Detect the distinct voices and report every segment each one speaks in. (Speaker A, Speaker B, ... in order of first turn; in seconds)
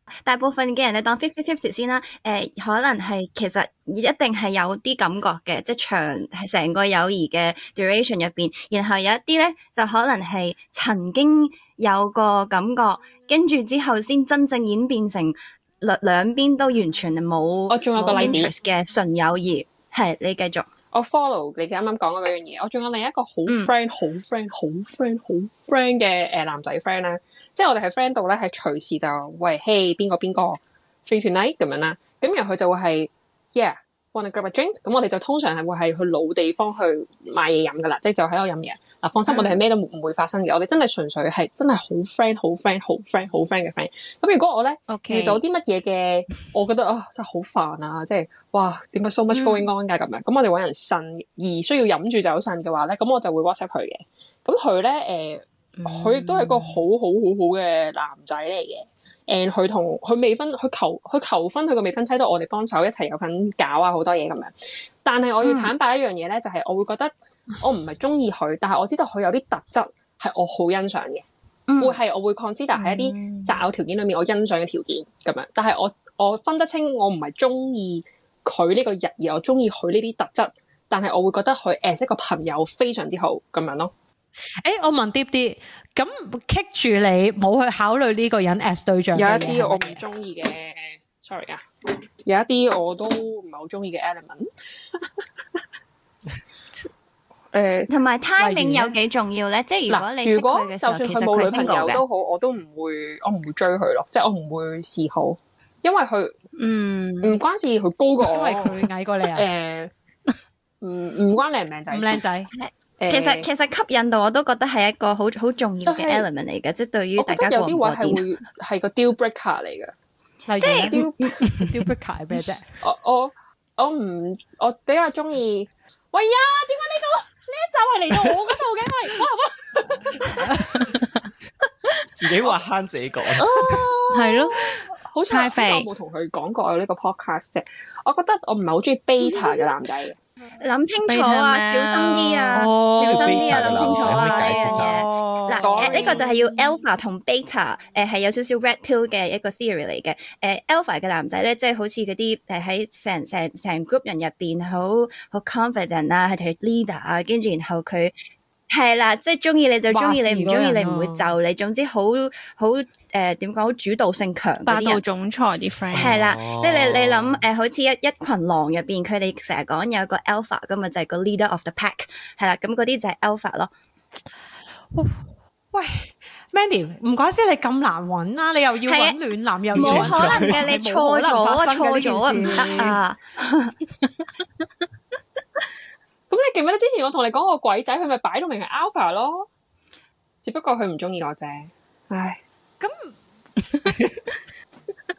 Speaker A: 0.3-20.7, 23.5-23.7, 65.4-65.7, 71.7-72.0, 97.9-102.0, 112.5-118.2, 120.6-121.4, 139.3-139.6, 140.6-158.1, 158.7-165.0, 165.9-173.7, 178.9-179.2, 179.7-183.8
Speaker B: 17.7-18.5, 20.9-64.5, 65.0-71.2, 71.8-83.9, 89.1-91.7, 92.2-95.6, 97.5-97.9, 99.9-106.3, 107.2-109.9, 110.8-112.2, 113.0-113.5, 115.8-116.3, 117.2-119.9, 120.9-121.6, 122.8-130.4, 133.4-140.2, 145.5-146.3, 186.3-189.5, 190.4-192.4
Speaker C: 44.9-45.4, 55.8-56.8, 72.8-73.6, 106.6-107.4, 130.7-131.2, 134.1-134.7, 135.3-135.9, 141.1-142.7, 164.7-166.2
Speaker D: 84.6-90.0, 98.4-99.0, 108.2-109.5, 111.9-112.5, 120.5-122.8, 142.7-146.2, 159.9-161.3, 174.9-183.0, 192.8-193.2
Speaker E: 132.2-133.8, 142.6-145.6, 165.9-167.4, 179.7-180.8, 193.9-194.2